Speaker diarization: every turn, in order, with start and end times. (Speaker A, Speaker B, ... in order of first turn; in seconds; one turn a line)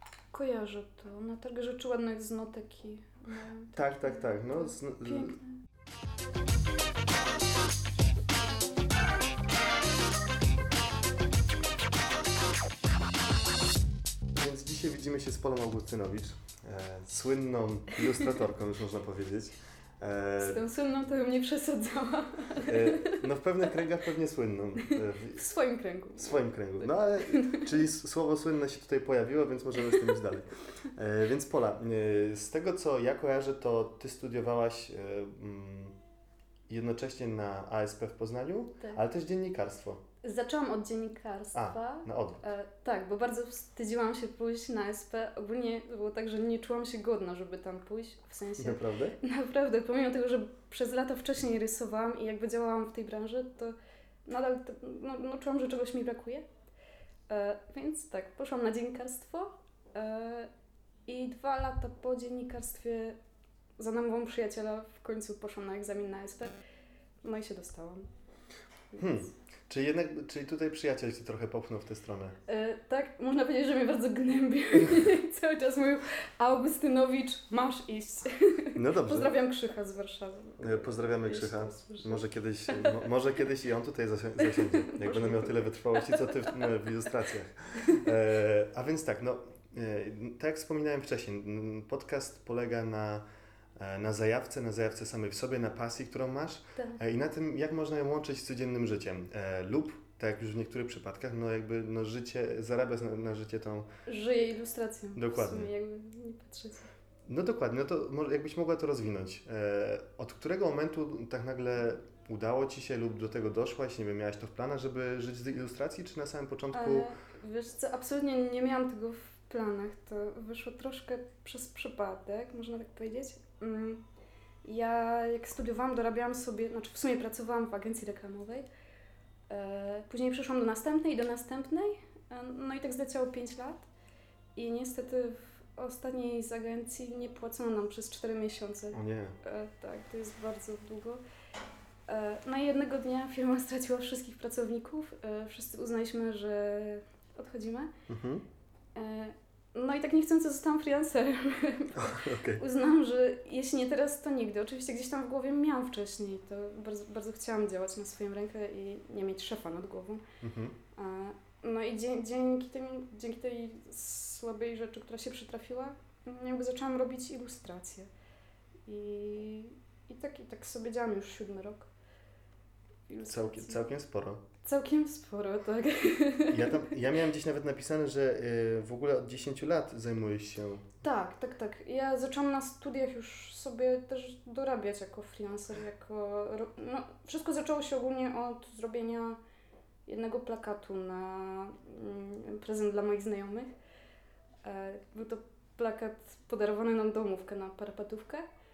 Speaker A: 0.3-5.6
Speaker B: 3.7-5.4
Speaker B: 14.3-20.7
Speaker A: 20.4-23.2
Speaker B: 22.7-25.5
Speaker A: 24.8-27.8
Speaker B: 26.2-36.0
Speaker A: 29.9-30.2
Speaker B: 36.7-40.0
Speaker A: 40.2-53.8
Speaker B: 41.5-42.4
Speaker B: 48.6-49.2
Speaker A: 54.3-56.5
Speaker A: 57.3-60.5
Speaker A: 61.1-63.2
Speaker A: 63.8-66.5
Speaker A: 67.2-68.1
Speaker A: 68.9-69.3
Speaker B: 69.0-72.4
Speaker A: 72.5-83.0
Speaker B: 78.8-79.3
Speaker B: 80.6-93.2
Speaker A: 84.4-86.6
Speaker B: 93.8-103.9
Speaker A: 96.8-97.0
Speaker A: 104.1-106.9
Speaker B: 105.2-105.7
Speaker B: 107.3-117.1
Speaker A: 116.7-124.0
Speaker A: 124.6-128.7
Speaker A: 129.5-133.9
Speaker A: 134.6-141.2
Speaker B: 138.9-139.4
Speaker A: 142.1-147.9
Speaker B: 148.1-148.4
Speaker A: 148.9-160.2
Speaker B: 151.9-152.6
Speaker B: 160.4-160.8
Speaker A: 160.9-168.1
Speaker A: 168.9-171.9
Speaker A: 173.1-173.9
Speaker B: 173.3-174.4
Speaker A: 174.6-176.9
Speaker B: 176.5-180.9
Speaker A: 181.0-189.4
Speaker A: 190.1-193.7
Speaker A: 194.6-198.5